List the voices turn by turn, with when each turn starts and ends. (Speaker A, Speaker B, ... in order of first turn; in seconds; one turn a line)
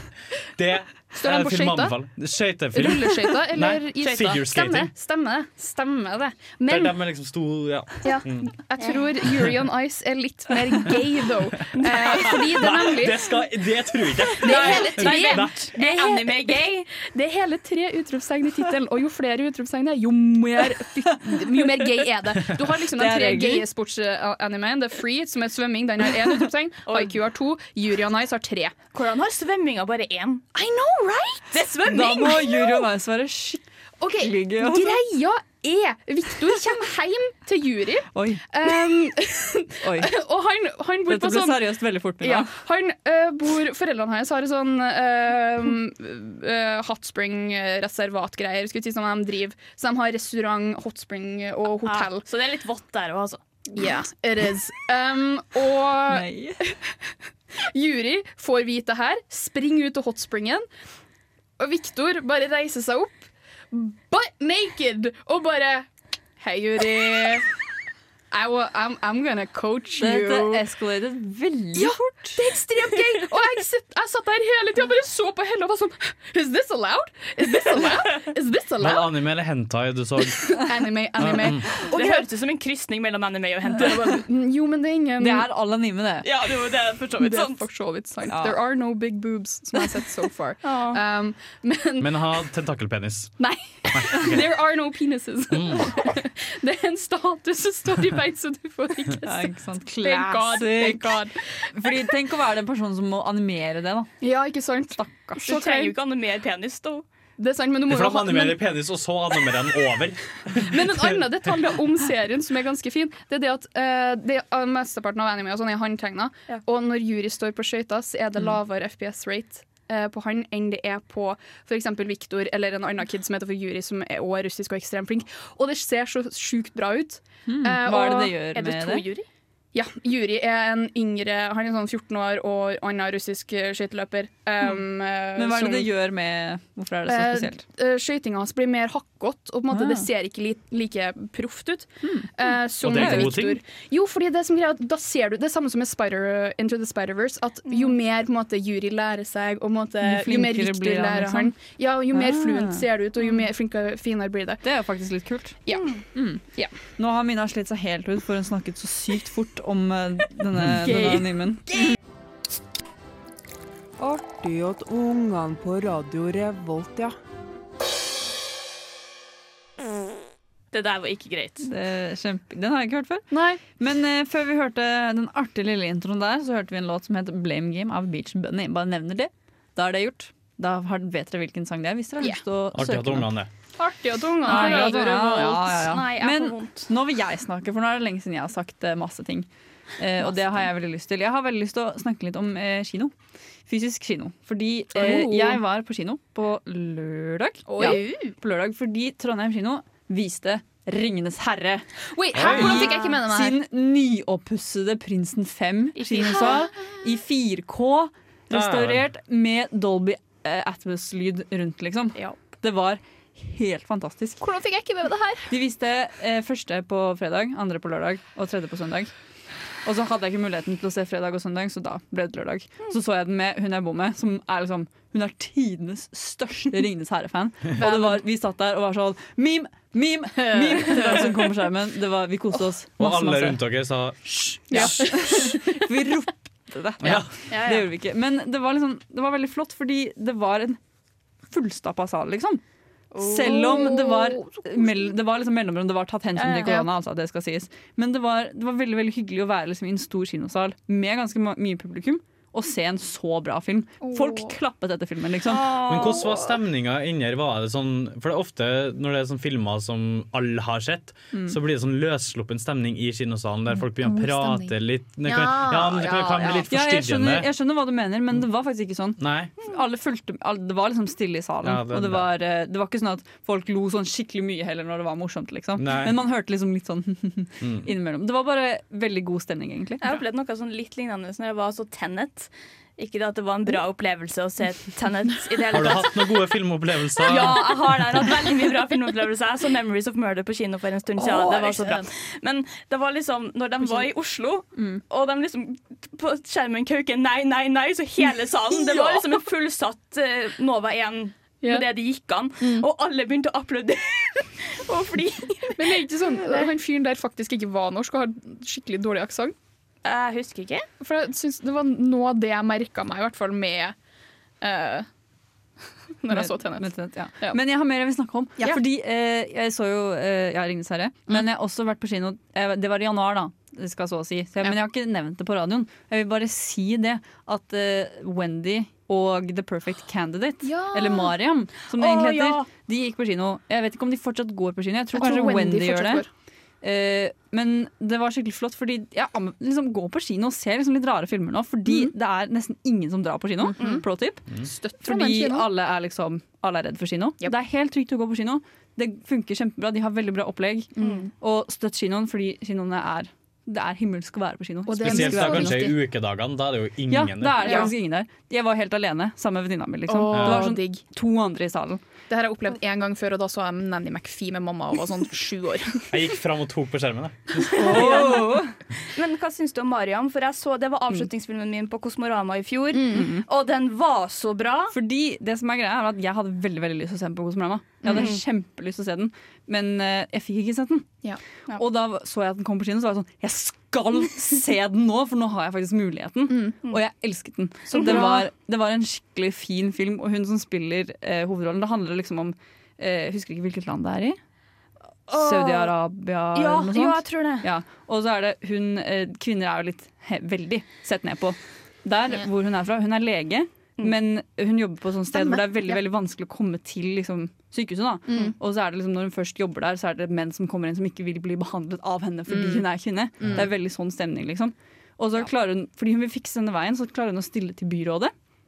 Speaker A: 0.6-4.9
Speaker B: 1.2-2.0
Speaker B: 2.7-7.0
Speaker A: 6.7-8.5
Speaker B: 8.1-13.3
Speaker C: 11.7-12.4
Speaker A: 11.9-15.7
Speaker B: 14.4-28.8
Speaker C: 14.4-16.9
Speaker D: 23.0-23.7
Speaker C: 26.9-27.1
Speaker C: 28.9-30.4
Speaker B: 30.6-32.9
Speaker C: 31.5-32.4
Speaker D: 31.9-33.6
Speaker B: 34.0-52.2
Speaker D: 34.2-35.0
Speaker D: 38.1-38.5
Speaker D: 39.8-40.1
Speaker D: 41.1-42.5
Speaker C: 51.8-53.4
Speaker B: 53.7-56.9
Speaker D: 56.1-56.6
Speaker B: 57.7-60.7
Speaker B: 61.6-65.9
Speaker B: 66.4-67.5
Speaker B: 68.3-70.6
Speaker D: 70.0-72.0
Speaker B: 71.8-79.1
Speaker A: 78.8-81.7
Speaker B: 80.5-82.3
Speaker C: 81.8-84.3
Speaker B: 84.0-85.5
Speaker D: 85.2-86.3
Speaker C: 86.2-87.6
Speaker B: 87.2-92.1
Speaker D: 88.3-88.6
Speaker C: 90.6-91.0
Speaker A: 92.0-93.3
Speaker B: 93.4-101.4
Speaker A: 93.9-94.5
Speaker A: 95.5-95.9
Speaker D: 99.2-101.2
Speaker D: 101.7-104.1
Speaker B: 104.2-105.9
Speaker C: 105.4-107.0
Speaker B: 107.4-108.8
Speaker A: 107.9-111.2
Speaker B: 110.6-128.3
Speaker D: 127.5-129.0
Speaker C: 128.6-129.2
Speaker B: 129.7-135.9
Speaker D: 135.4-137.6
Speaker B: 137.1-154.6
Speaker D: 139.7-140.1
Speaker D: 142.0-142.3
Speaker A: 142.8-143.6
Speaker D: 142.9-143.3
Speaker D: 150.0-151.6
Speaker D: 152.1-152.8
Speaker D: 154.6-155.6
Speaker B: 155.7-156.0
Speaker D: 156.2-156.4
Speaker D: 157.0-161.9
Speaker E: 164.0-167.2
Speaker C: 170.7-171.7
Speaker D: 171.6-183.3
Speaker B: 173.3-173.6
Speaker A: 182.7-183.5
Speaker B: 183.8-185.6
Speaker C: 184.4-186.9
Speaker D: 184.4-189.5
Speaker D: 190.0-193.1
Speaker D: 193.7-214.4
Speaker B: 194.9-195.6
Speaker B: 197.7-198.3
Speaker B: 202.1-203.6
Speaker A: 202.3-202.9
Speaker C: 206.1-206.6
Speaker B: 206.2-206.9
Speaker A: 208.5-209.1
Speaker B: 214.4-215.5
Speaker D: 215.5-219.1
Speaker D: 219.8-233.6
Speaker B: 227.8-228.2
Speaker B: 230.4-231.2
Speaker A: 233.0-235.2
Speaker D: 234.7-240.8
Speaker B: 234.7-235.7
Speaker A: 237.0-237.3
Speaker C: 237.5-237.8
Speaker D: 241.5-242.6
Speaker B: 243.2-245.1
Speaker D: 243.2-255.8
Speaker C: 246.5-246.8
Speaker B: 246.6-246.9
Speaker B: 254.0-254.6
Speaker A: 255.8-267.5
Speaker C: 255.9-256.2
Speaker B: 255.9-256.4
Speaker D: 261.3-261.6
Speaker B: 264.0-264.7
Speaker B: 265.3-266.7
Speaker D: 266.7-280.1
Speaker A: 269.2-269.5
Speaker A: 271.6-272.3
Speaker A: 275.8-276.2
Speaker A: 277.6-277.9
Speaker C: 280.0-286.4
Speaker A: 285.7-287.8
Speaker C: 287.2-306.7
Speaker D: 291.3-292.0
Speaker B: 302.6-302.9
Speaker B: 305.8-309.5
Speaker C: 310.0-310.9
Speaker B: 311.0-313.9
Speaker B: 314.6-315.1
Speaker B: 316.2-316.9
Speaker D: 316.3-336.2
Speaker B: 330.6-331.3
Speaker B: 335.1-336.3
Speaker D: 336.8-344.4
Speaker B: 343.6-344.0
Speaker B: 344.6-345.7
Speaker D: 345.0-356.0
Speaker B: 351.0-351.3
Speaker B: 354.9-356.0
Speaker A: 355.0-357.9
Speaker D: 357.1-362.0
Speaker B: 357.6-357.9
Speaker B: 360.1-361.0
Speaker A: 360.3-360.7
Speaker B: 362.3-366.1
Speaker A: 366.1-368.4
Speaker D: 367.7-368.7
Speaker C: 368.1-368.5
Speaker C: 369.1-374.9
Speaker B: 372.9-373.4
Speaker D: 374.9-381.1
Speaker B: 378.0-378.4
Speaker D: 381.8-394.4
Speaker B: 386.5-386.8
Speaker B: 387.9-388.4
Speaker C: 387.9-388.3
Speaker C: 395.3-395.9
Speaker D: 395.3-418.3
Speaker C: 396.6-397.7
Speaker B: 412.5-412.9